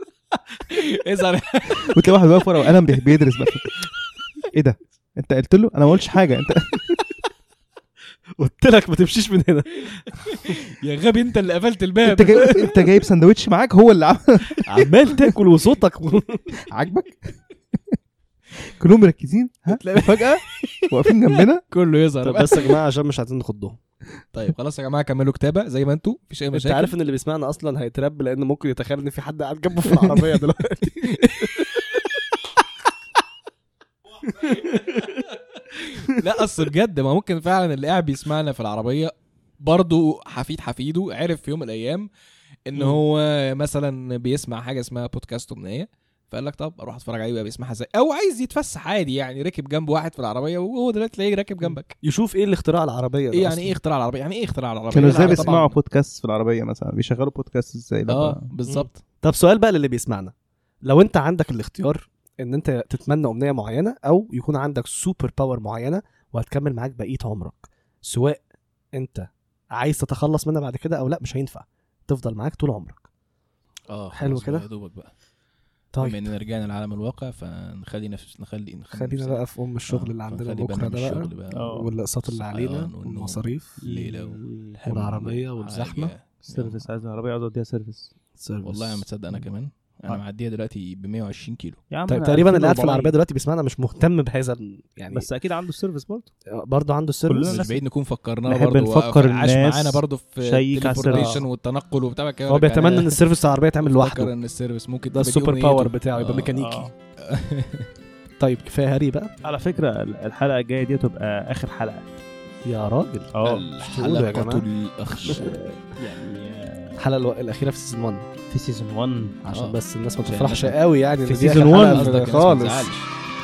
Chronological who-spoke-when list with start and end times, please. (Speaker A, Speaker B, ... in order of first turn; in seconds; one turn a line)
Speaker A: 0.7-2.4
Speaker B: 1.9-3.8
Speaker B: 4.5-7.0
Speaker C: 8.4-10.6
Speaker A: 10.2-12.6
Speaker B: 12.0-15.3
Speaker C: 14.7-16.5
Speaker B: 16.7-17.3
Speaker B: 18.8-21.6
Speaker A: 19.7-22.7
Speaker C: 22.2-23.8
Speaker A: 24.3-26.9
Speaker C: 26.5-32.1
Speaker C: 34.2-35.3
Speaker A: 35.7-42.1
Speaker A: 42.7-51.9
Speaker C: 42.8-43.0
Speaker C: 51.6-53.8
Speaker A: 53.3-55.7
Speaker B: 54.9-58.4
Speaker C: 55.0-55.7
Speaker A: 58.1-59.0
Speaker C: 58.7-60.3
Speaker C: 60.8-68.4
Speaker C: 69.0-73.0
Speaker A: 73.9-75.1
Speaker C: 74.2-74.7
Speaker C: 75.9-76.3
Speaker A: 76.0-81.7
Speaker C: 78.9-84.2
Speaker B: 81.5-81.9
Speaker A: 82.3-86.8
Speaker B: 83.8-84.8
Speaker C: 84.9-86.1
Speaker B: 86.4-88.1
Speaker C: 88.4-89.1
Speaker A: 88.6-91.8
Speaker B: 91.9-93.1
Speaker C: 92.1-95.2
Speaker B: 95.1-96.3
Speaker C: 96.5-97.7
Speaker B: 97.3-97.8
Speaker A: 97.4-103.2
Speaker B: 98.5-101.5
Speaker C: 101.0-101.4
Speaker C: 102.5-104.3
Speaker A: 103.8-106.5
Speaker C: 105.1-106.9
Speaker B: 106.5-106.9
Speaker A: 107.3-107.9
Speaker C: 108.4-109.3
Speaker B: 109.4-112.1
Speaker C: 112.7-114.7
Speaker B: 113.3-113.6
Speaker A: 113.4-116.5
Speaker C: 115.2-115.8
Speaker B: 116.0-117.0
Speaker C: 117.0-118.2
Speaker B: 118.5-119.3
Speaker C: 119.4-122.9
Speaker A: 119.5-120.8
Speaker B: 121.3-122.2
Speaker A: 121.8-123.1